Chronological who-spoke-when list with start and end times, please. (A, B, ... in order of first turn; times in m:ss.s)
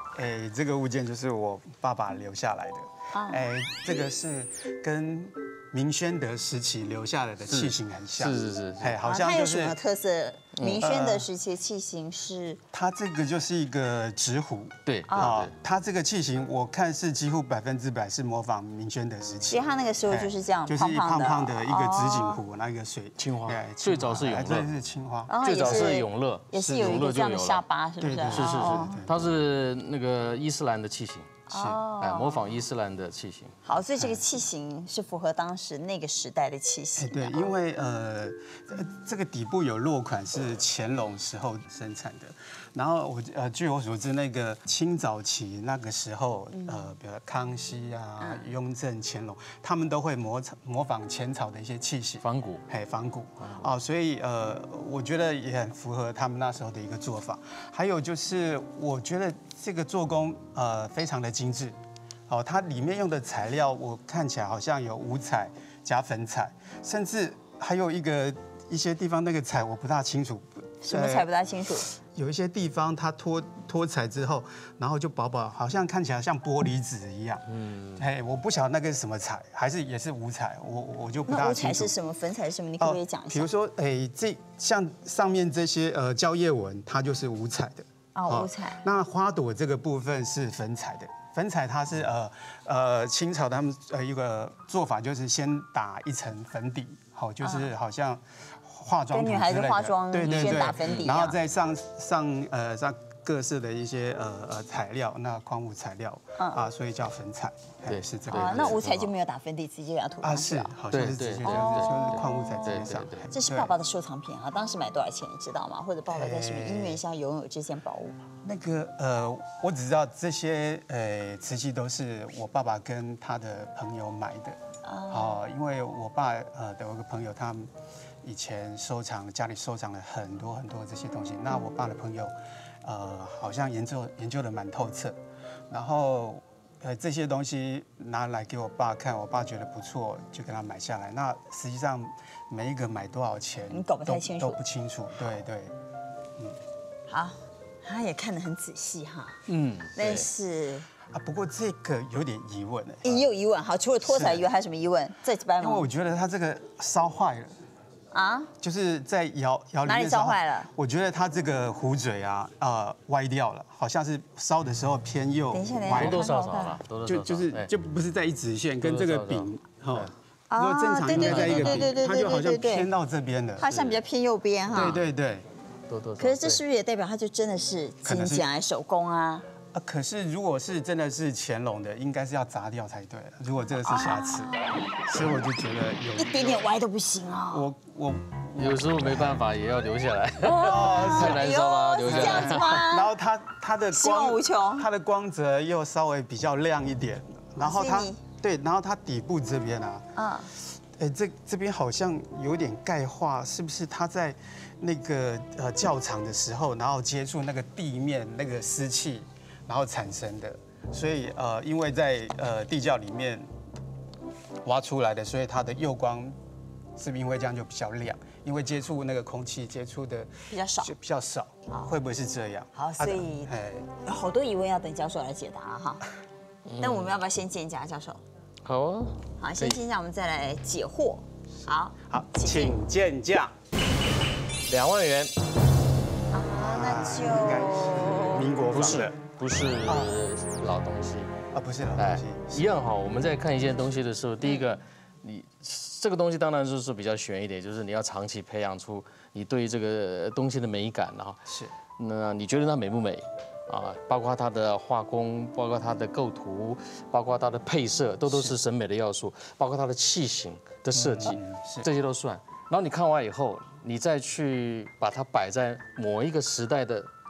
0:00.2-0:09.8 A
0:03.1-0:03.4 B
0:07.5-0:09.0 C
0:09.0-0:12.6 B
0:10.6-0:10.9 C
0:10.8-0:11.3 A
0:12.7-0:26.0 A
0:14.9-0:15.5 C
0:19.5-0:22.4 B
0:23.2-0:24.7 C
0:25.3-0:29.0 B
0:25.4-0:27.6 C
0:26.5-0:27.1 A
0:28.0-0:29.2 A
0:28.3-0:31.4 C
0:31.5-0:32.5 B
0:31.5-0:31.8 A
0:32.0-0:33.5 C
0:33.6-0:37.5 B
0:34.0-0:34.2 A
0:37.0-1:01.8 A
0:46.5-0:46.9 B
0:48.2-0:48.5 B
0:52.2-0:52.6 C
0:53.4-0:53.7 C
1:02.3-1:11.3 A
1:10.8-1:11.9 B
1:11.9-1:21.9 A
1:17.6-1:18.1 C
1:21.3-1:23.5 B
1:22.8-1:48.9 A
1:28.2-1:28.8 B
1:37.4-1:37.7 B
1:39.1-1:41.4 B
1:40.2-1:41.0 C
1:47.9-1:49.1 C
1:48.3-1:50.8 B
1:50.2-1:53.8 A
1:50.9-1:53.3 C
1:51.4-1:58.2 B
1:56.1-1:57.0 A
1:58.4-2:04.6 A
2:04.8-2:05.4 B
2:05.1-2:07.7 A
2:08.2-2:15.2 A
2:15.7-2:25.7 A
2:23.7-2:24.6 B
2:27.1-2:29.4 B
2:29.5-2:30.3 C
2:30.0-2:30.9 B
2:31.1-2:33.3 A
2:33.0-2:35.9 B
2:34.0-2:34.5 A
2:35.6-2:37.6 A
2:38.1-2:38.5 B
2:38.6-2:46.3 A
2:39.8-2:40.7 B
2:45.5-2:46.8 B
2:45.9-2:47.7 C
2:47.0-2:53.8 A
2:48.8-2:50.1 C
2:50.5-2:52.9 B
2:51.1-2:51.9 C
2:53.6-2:55.0 B
2:53.7-2:54.0 C
2:54.7-2:55.4 A
2:54.7-2:55.0 C
2:55.9-2:56.6 C
2:56.2-2:59.4 B
2:58.0-2:58.5 A
2:59.7-3:04.5 A
3:03.8-3:04.8 B
3:05.1-3:06.7 A
3:06.2-3:07.7 B
3:07.5-3:09.4 A
3:08.6-3:12.8 C
3:10.4-3:13.1 B
3:10.6-3:11.5 A
3:12.0-3:20.1 A
3:13.9-3:14.9 B
3:17.6-3:18.2 B
3:20.2-3:20.5 B
3:21.0-3:33.5 A
3:34.6-3:36.4 A
3:37.0-3:43.9 A
3:40.5-3:40.9 B
3:41.7-3:41.9 B
3:42.8-3:46.0 B
3:46.7-3:47.2 C
3:46.8-3:48.2 B
3:48.6-3:49.8 C
3:49.4-3:52.8 B
3:52.1-3:53.6 A
3:54.7-3:55.3 C
3:56.3-3:58.5 B
3:56.6-3:59.2 A
3:58.7-4:01.3 C
3:59.9-4:00.2 A
4:01.5-4:02.8 A
4:02.0-4:11.4 C
4:11.5-4:11.7 A
4:12.0-4:27.1 C
4:18.3-4:18.6 A
4:20.9-4:21.9 A